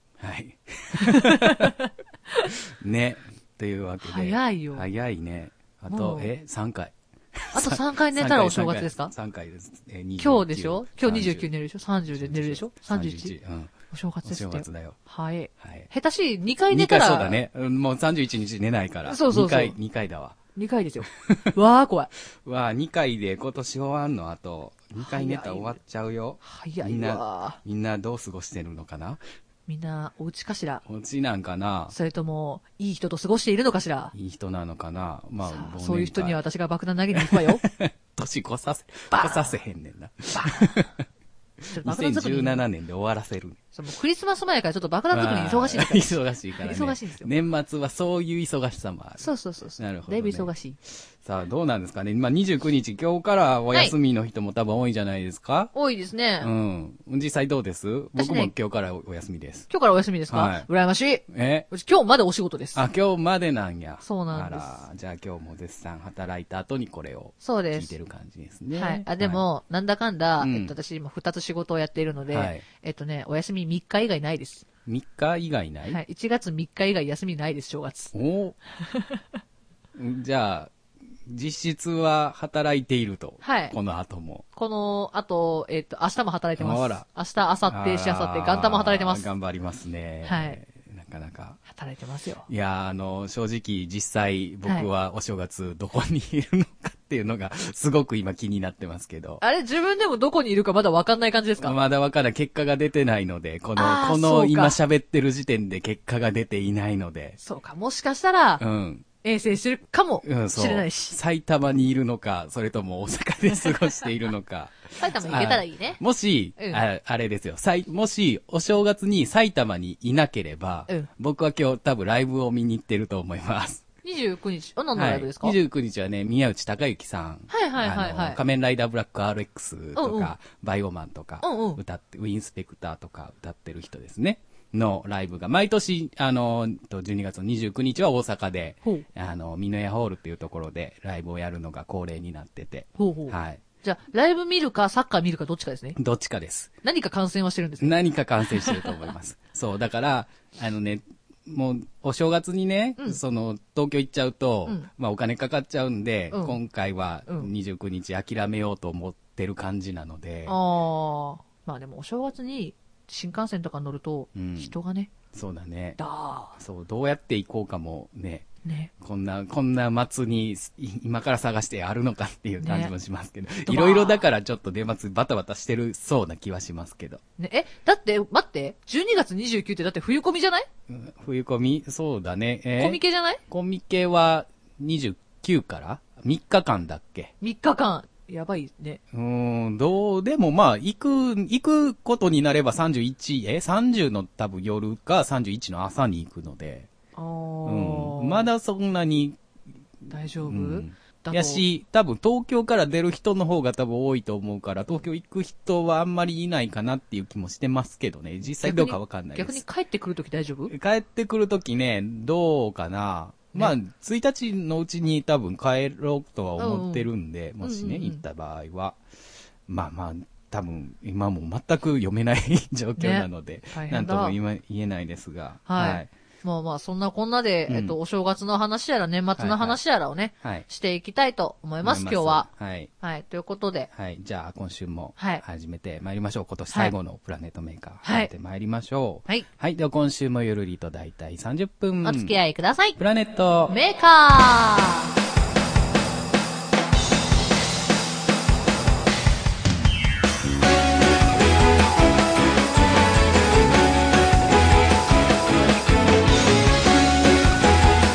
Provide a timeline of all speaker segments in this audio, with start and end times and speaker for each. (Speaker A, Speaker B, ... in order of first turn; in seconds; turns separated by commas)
Speaker A: 0.2-1.7, Speaker B: 0.9-2.5, Speaker A: 2.7-11.5, Speaker B: 4.0-4.8, Speaker B: 5.9-6.3, Speaker B: 7.5-9.1, Speaker B: 10.2-13.3, Speaker A: 12.1-13.7, Speaker B: 13.9-17.4, Speaker A: 14.2-15.0, Speaker A: 15.6-15.9, Speaker A: 16.7-20.4, Speaker B: 19.1-19.8, Speaker B: 20.6-22.1, Speaker A: 22.3-29.2, Speaker B: 24.9-25.8, Speaker B: 26.4-27.6, Speaker B: 29.7-30.8, Speaker A: 30.8-31.9, Speaker B: 31.9-34.1, Speaker A: 34.1-36.4, Speaker B: 35.4-37.6, Speaker A: 37.1-41.0, Speaker B: 39.1-39.5, Speaker B: 40.3-40.9, Speaker A: 41.7-43.6, Speaker B: 41.7-42.6, Speaker B: 43.7-47.3, Speaker A: 45.1-55.7, Speaker B: 49.2-50.8, Speaker B: 55.7-56.5, Speaker A: 56.4-59.7, Speaker B: 58.1-58.5, Speaker B: 59.7-62.8, Speaker A: 60.3-60.7, Speaker A: 61.3-61.7, Speaker A: 62.7-69.4, Speaker B: 64.0-64.8, Speaker B: 67.4-67.9, Speaker B: 68.7-74.7, Speaker A: 70.4-70.7, Speaker A: 72.3-72.6, Speaker A: 74.8-76.0, Speaker B: 75.8-78.1, Speaker A: 78.1-78.6, Speaker B: 78.8-79.2, Speaker A: 79.9-80.7, Speaker A: 81.3-84.4, Speaker B: 83.4-83.8, Speaker B: 84.5-89.2, Speaker A: 86.6-87.0, Speaker A: 87.7-91.6, Speaker B: 90.2-90.6, Speaker B: 91.7-92.5, Speaker A: 92.5-99.4, Speaker B: 99.4-101.8, Speaker A: 101.6-107.4, Speaker B: 103.8-104.8, Speaker B: 107.4-108.6, Speaker A: 108.6-109.0, Speaker B: 109.2-111.2, Speaker A: 110.2-123.8, Speaker B: 115.0-116.0, Speaker B: 116.6-116.8, Speaker B: 124.0-125.6, Speaker A: 124.9-143.6, Speaker B: 127.5-128.4, Speaker B: 129.9-130.3, Speaker B: 131.4-131.8, Speaker B: 143.0-146.0, Speaker A: 145.9-146.7, Speaker B: 146.8-149.1, Speaker A: 147.8-160.6, Speaker B: 156.3-156.6, Speaker B: 160.5-165.1, Speaker A: 164.3-164.7, Speaker A: 165.3-166.0, Speaker B: 166.0-166.6, Speaker A: 166.6-168.5, Speaker B: 168.6-168.9, Speaker A: 169.0-177.2, Speaker B: 172.6-172.9, Speaker B: 173.6-174.2, Speaker B: 177.4-180.7, Speaker A: 180.9-187.3, Speaker B: 182.8-183.4, Speaker B: 187.4-189.0, Speaker A: 189.1-196.9, Speaker B: 197.1-198.5, Speaker A: 197.6-199.4, Speaker A: 200.0-209.6, Speaker B: 200.1-201.6, Speaker B: 208.4-210.7, Speaker A: 210.7-219.0, Speaker B: 216.6-217.1, Speaker B: 217.6-218.2, Speaker A: 219.7-226.1, Speaker B: 223.0-224.3, Speaker B: 225.7-232.5, Speaker A: 227.7-228.0, Speaker A: 229.3-229.8, Speaker A: 230.4-230.7, Speaker A: 231.8-232.9, Speaker B: 233.0-233.9, Speaker A: 233.9-242.4, Speaker B: 235.2-235.4, Speaker B: 236.7-236.9, Speaker B: 238.0-238.3, Speaker B: 242.0-243.0, Speaker A: 243.0-243.8, Speaker B: 243.7-245.1